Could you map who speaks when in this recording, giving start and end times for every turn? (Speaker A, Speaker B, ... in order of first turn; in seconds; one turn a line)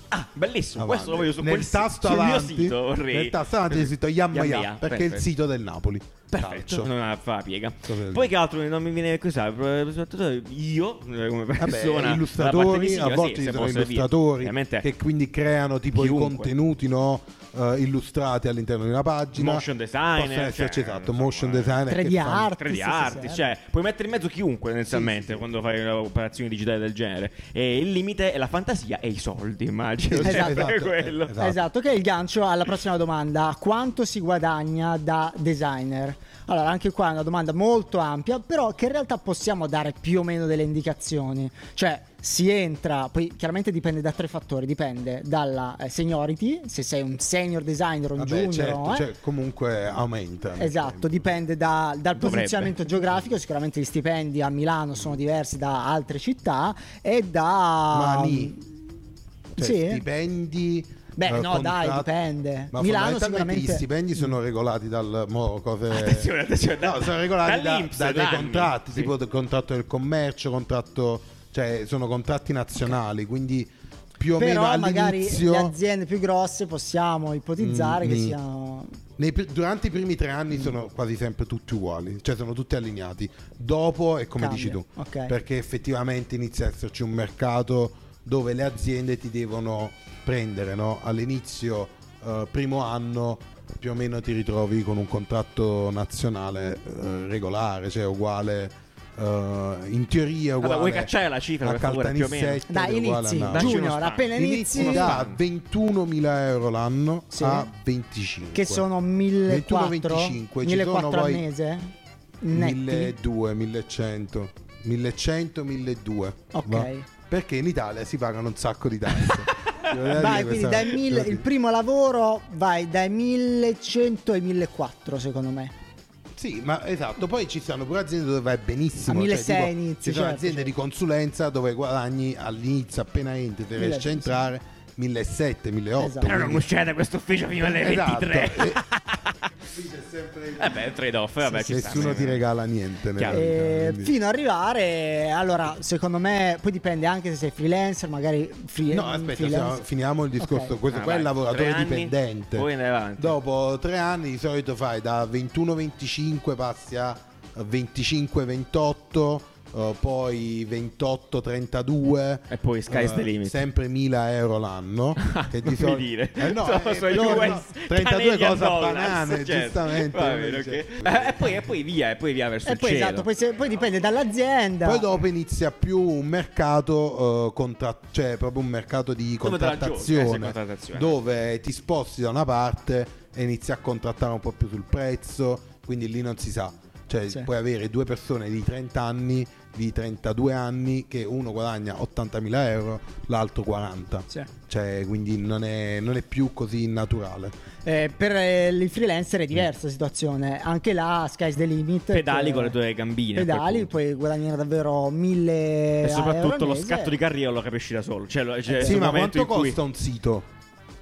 Speaker A: 0.1-5.2
Speaker B: 0.8-6.9
Speaker A: 6.3-14.9
Speaker B: 7.8-8.3
Speaker B: 11.6-22.5
Speaker A: 15.9-16.5
Speaker A: 19.3-21.8
Speaker C: 21.9-23.4
Speaker A: 22.5-31.4
Speaker B: 24.9-25.4
Speaker B: 30.1-31.6
Speaker C: 30.2-30.8
Speaker C: 31.3-49.1
Speaker B: 48.2-51.3
Speaker C: 50.6-58.7
Speaker A: 52.1-52.7
Speaker B: 57.9-58.5
Speaker C: 59.5-60.0
Speaker B: 59.6-62.1
Speaker C: 61.2-63.9
Speaker B: 62.7-75.7
Speaker A: 65.9-69.1
Speaker C: 74.4-79.0
Speaker B: 77.6-78.3
Speaker B: 79.2-108.8
Speaker C: 84.3-85.3
Speaker A: 100.6-102.6
Speaker C: 102.7-105.2
Speaker A: 103.5-105.4
Speaker C: 107.3-107.7
Speaker C: 108.5-111.9
Speaker B: 109.5-111.4
Speaker C: 112.4-113.2
Speaker B: 112.5-121.4
Speaker C: 116.5-117.1
Speaker C: 120.1-125.7
Speaker B: 126.3-136.7
Speaker C: 129.1-130.7
Speaker C: 133.8-134.4
Speaker C: 136.0-136.3
Speaker A: 136.2-139.5
Speaker B: 137.7-138.8
Speaker B: 139.6-140.8
Speaker A: 140.6-142.4
Speaker B: 141.4-144.1
Speaker A: 143.2-143.5
Speaker C: 143.3-149.8
Speaker B: 148.9-171.7
Speaker C: 150.4-150.8
Speaker A: 150.9-153.3
Speaker A: 162.5-163.6
Speaker A: 165.2-173.3
Speaker C: 167.1-167.6
Speaker C: 172.7-175.1
Speaker B: 174.8-197.5
Speaker A: 179.4-181.2
Speaker C: 197.8-202.8
Speaker A: 202.1-203.9
Speaker C: 203.3-207.1
Speaker A: 206.0-209.8
Speaker C: 208.7-209.0
Speaker B: 208.8-210.5